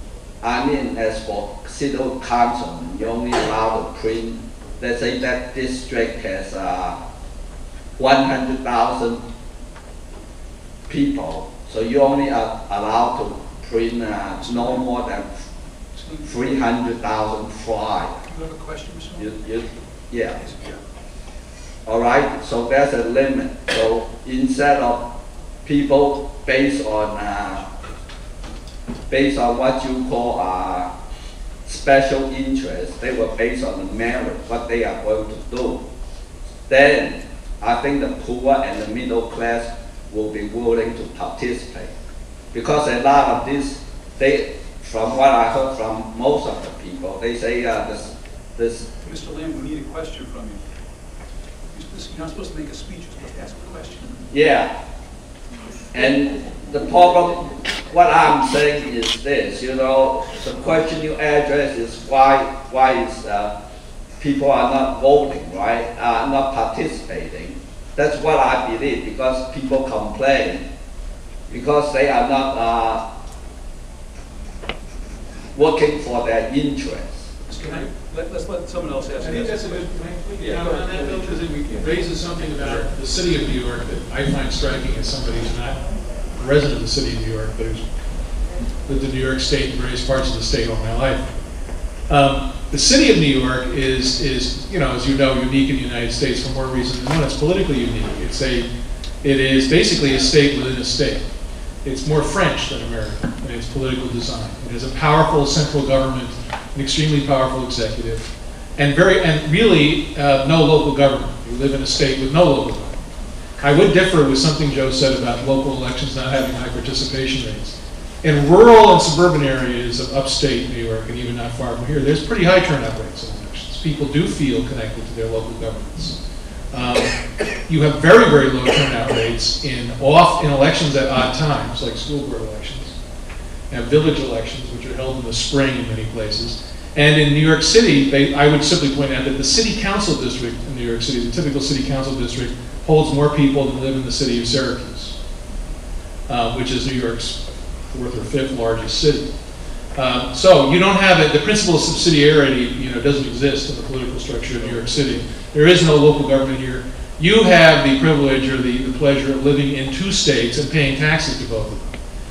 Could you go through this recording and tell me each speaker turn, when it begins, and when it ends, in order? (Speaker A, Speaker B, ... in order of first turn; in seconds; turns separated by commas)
Speaker A: 0.4-7.0, Speaker A: 8.0-9.2, Speaker A: 10.9-15.4, Speaker B: 14.4-14.8, Speaker B: 15.9-16.6, Speaker A: 16.2-18.2, Speaker B: 18.3-19.4, Speaker A: 19.1-20.4, Speaker B: 20.4-20.8, Speaker A: 21.9-25.1, Speaker A: 25.6-27.7, Speaker A: 29.1-30.9, Speaker A: 31.6-35.8, Speaker A: 36.7-41.9, Speaker A: 42.5-48.9, Speaker B: 49.0-50.6, Speaker B: 51.7-54.1, Speaker A: 54.3-54.7, Speaker A: 55.9-63.5, Speaker A: 64.2-70.6, Speaker A: 71.5-73.0, Speaker A: 75.5-77.3, Speaker B: 77.5-81.9, Speaker C: 77.6-77.9, Speaker C: 79.2-85.8, Speaker C: 86.4-87.8, Speaker C: 88.9-91.3, Speaker C: 92.1-98.7, Speaker C: 99.2-101.2, Speaker C: 101.8-113.0, Speaker C: 113.6-126.1, Speaker C: 126.7-127.1, Speaker C: 127.7-132.9, Speaker C: 133.7-145.1, Speaker C: 146.3-149.3, Speaker C: 149.9-161.9